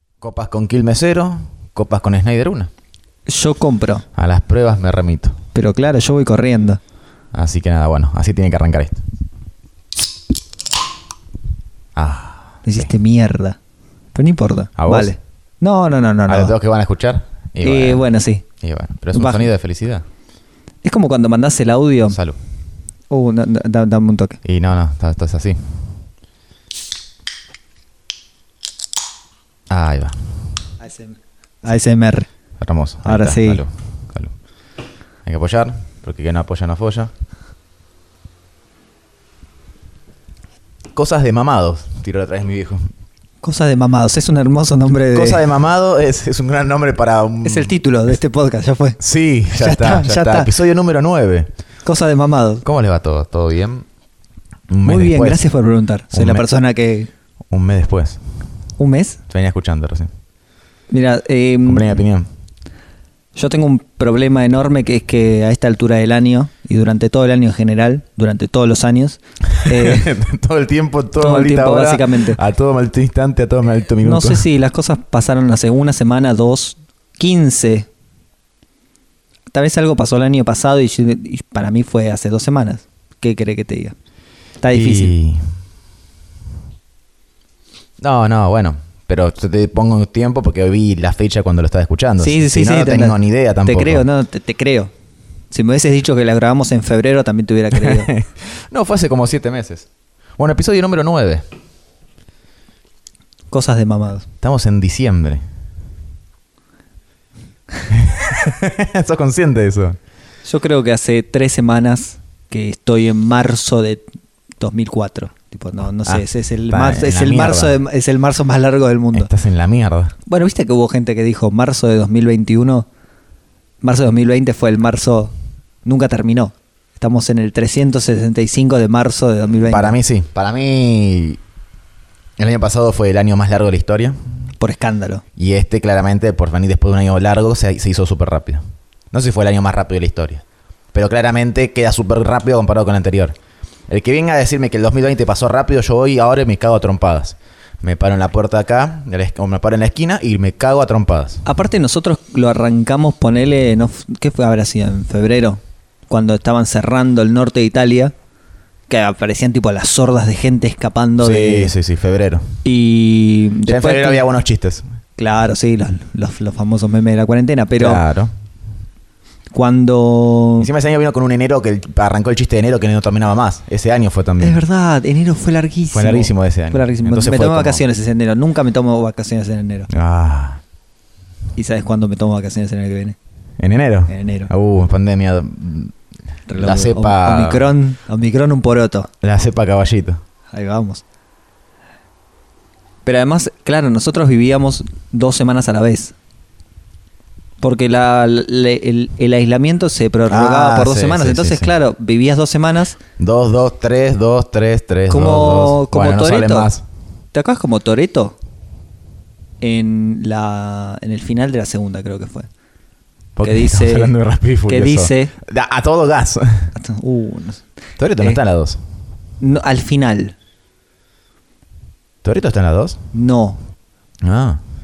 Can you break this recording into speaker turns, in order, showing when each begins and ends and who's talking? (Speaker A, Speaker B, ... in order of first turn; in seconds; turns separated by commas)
Speaker A: 0.2-2.7, Speaker B: 3.3-4.0, Speaker A: 4.2-5.4, Speaker B: 5.5-6.8, Speaker A: 7.3-9.0, Speaker A: 12.0-12.9, Speaker B: 12.6-13.6, Speaker B: 14.1-16.6, Speaker A: 14.8-15.1, Speaker A: 16.3-18.1, Speaker B: 17.6-18.4, Speaker A: 18.6-20.1, Speaker B: 19.1-19.5, Speaker B: 20.8-22.2, Speaker A: 22.1-22.4, Speaker B: 23.1-24.4, Speaker A: 24.4-25.8, Speaker A: 29.7-30.2, Speaker B: 30.8-32.3, Speaker A: 32.6-34.3, Speaker B: 33.0-33.6, Speaker A: 35.2-37.1, Speaker A: 40.9-42.8, Speaker B: 43.4-45.5, Speaker A: 45.1-47.7, Speaker B: 47.4-49.0, Speaker A: 49.0-51.5, Speaker B: 49.5-50.5, Speaker B: 51.8-52.6, Speaker A: 52.6-53.8, Speaker A: 54.7-55.4, Speaker B: 54.8-57.1, Speaker A: 56.1-56.4, Speaker A: 57.5-58.2, Speaker B: 58.8-59.2, Speaker A: 59.3-60.1, Speaker B: 60.9-62.0, Speaker A: 61.6-62.3, Speaker B: 63.3-70.1, Speaker A: 69.5-74.4, Speaker B: 71.2-72.4, Speaker B: 74.0-77.9, Speaker B: 79.5-83.9, Speaker B: 84.6-85.1, Speaker A: 84.7-85.4, Speaker A: 88.0-94.0, Speaker B: 92.2-94.9, Speaker B: 95.5-98.1, Speaker A: 97.7-101.4, Speaker B: 103.5-104.2, Speaker A: 104.4-105.4, Speaker A: 107.9-110.0, Speaker B: 110.4-114.0, Speaker B: 114.6-119.3, Speaker A: 116.0-117.7, Speaker A: 119.1-120.1, Speaker B: 120.2-122.9, Speaker B: 123.8-125.3, Speaker B: 125.8-129.9, Speaker A: 129.7-131.4, Speaker A: 132.4-134.2, Speaker B: 134.6-135.2, Speaker A: 135.4-143.4, Speaker A: 143.9-151.4, Speaker B: 151.4-158.1, Speaker B: 158.9-161.7, Speaker A: 161.2-162.4, Speaker B: 162.6-164.2, Speaker A: 163.7-164.8, Speaker B: 165.2-168.0, Speaker A: 167.8-168.3, Speaker B: 169.5-170.7, Speaker A: 170.6-174.6, Speaker B: 174.4-179.9, Speaker A: 175.9-177.8, Speaker A: 179.9-180.6, Speaker B: 181.6-183.2, Speaker A: 183.6-185.9, Speaker B: 184.1-184.5, Speaker B: 186.5-189.1, Speaker A: 186.6-187.6, Speaker A: 189.2-190.2, Speaker B: 190.5-191.0, Speaker B: 193.0-196.2, Speaker B: 197.6-203.0, Speaker A: 200.3-201.7, Speaker A: 203.2-206.8, Speaker B: 205.1-206.7, Speaker B: 207.3-208.3, Speaker B: 209.6-212.5, Speaker A: 213.3-216.7, Speaker B: 213.4-214.1, Speaker B: 214.7-215.3, Speaker B: 216.8-217.7, Speaker A: 218.0-218.8, Speaker B: 219.4-220.3, Speaker A: 222.2-223.0, Speaker B: 223.1-223.6, Speaker A: 224.2-224.6